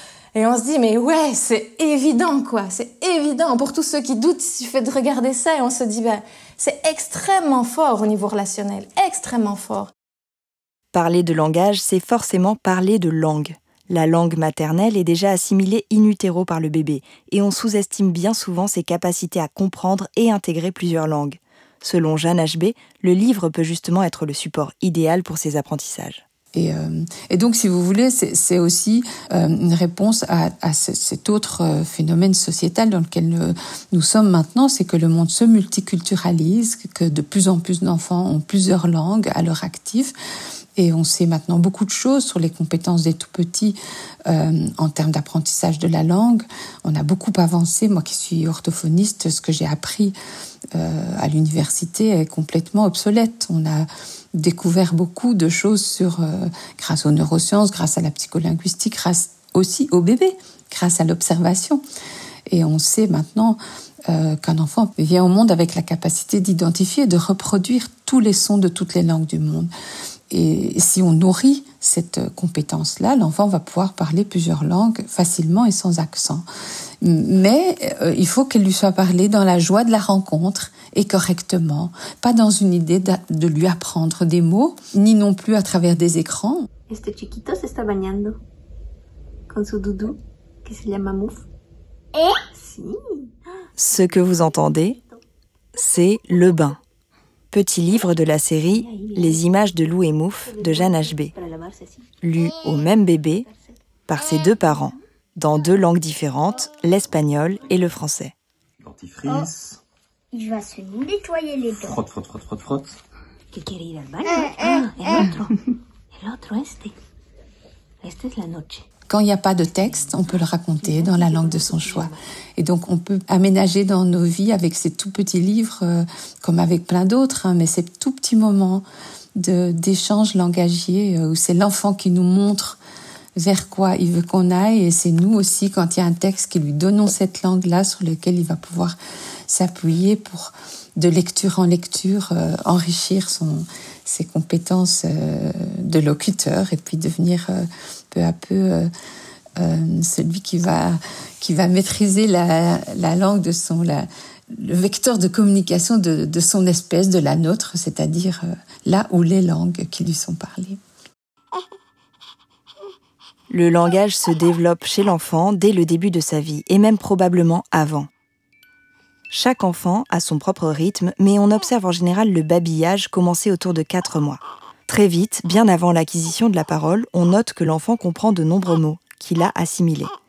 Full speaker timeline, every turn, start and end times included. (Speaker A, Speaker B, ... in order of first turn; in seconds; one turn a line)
Speaker A: 0.3-9.9
Speaker B: 10.9-26.2
Speaker C: 26.5-40.1
Speaker C: 40.8-50.1
Speaker C: 50.7-61.8
Speaker C: 62.5-69.7
Speaker C: 70.3-76.5
Speaker C: 77.0-86.7
Speaker D: 86.9-88.4
Speaker D: 89.5-91.4
Speaker D: 92.5-93.3
Speaker B: 93.8-95.0
Speaker D: 93.9-95.2
Speaker B: 95.8-96.8
Speaker B: 97.5-101.3
Speaker D: 98.8-99.4
Speaker D: 100.5-102.1
Speaker B: 102.2-103.5
Speaker B: 104.1-108.3
Speaker E: 109.2-109.5
Speaker E: 110.3-112.0
Speaker D: 113.5-115.6
Speaker D: 116.1-117.0
Speaker D: 118.0-118.8
Speaker C: 119.1-128.8
Speaker D: 120.8-122.2
Speaker C: 129.3-132.8
Speaker C: 133.4-138.9
Speaker C: 139.5-148.9
Speaker C: 149.6-160.8
Speaker B: 163.5-168.1
Speaker B: 169.3-180.1